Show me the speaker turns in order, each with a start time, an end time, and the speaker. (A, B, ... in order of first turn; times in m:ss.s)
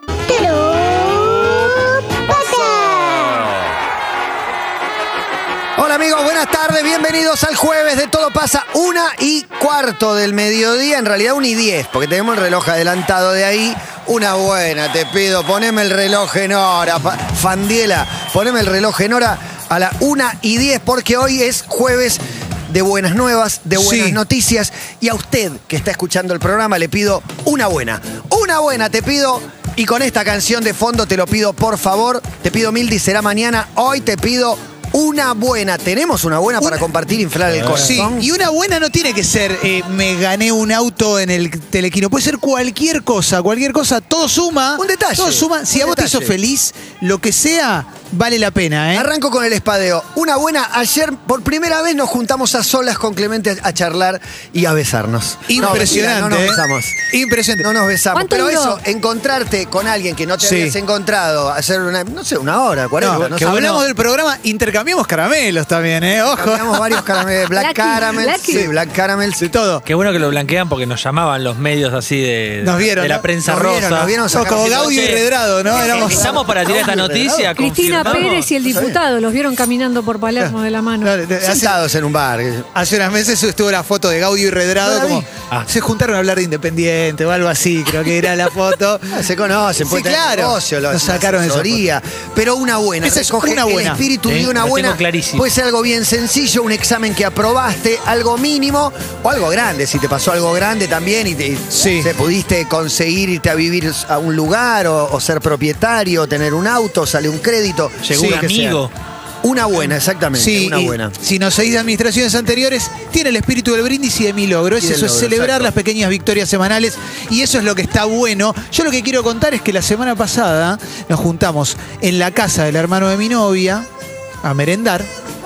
0:02.3-0:02.7 A
0:05.8-0:38.3 A
0:23.8-0:24.2 B
0:37.6-0:49.1 B
0:44.8-0:46.4 A
0:48.9-0:57.1 A
0:55.5-0:57.7 B
0:57.6-1:03.8 A
0:58.1-0:58.8 C
1:00.4-1:00.8 B
1:03.0-1:07.0 B
1:03.1-1:03.8 D
1:06.4-1:09.5 A
1:07.6-1:08.7 C
1:09.4-1:09.8 B
1:09.9-1:18.5 D
1:12.6-1:13.3 B
1:13.4-1:19.0 A
1:14.3-1:16.4 B
1:17.6-1:21.1 C
1:21.0-1:21.8 B
1:21.4-1:22.7 A
1:22.8-1:29.2 B
1:24.8-1:25.2 A
1:29.1-1:48.8 A
1:29.8-1:31.8 B
1:33.0-1:34.0 B
1:34.3-1:35.5 D
1:41.7-1:42.1 B
1:48.1-1:48.9 D
1:48.2-1:48.4 B
1:49.4-1:51.2 A
1:50.4-2:03.9 B
1:54.8-1:55.7 A
2:04.4-2:05.1 B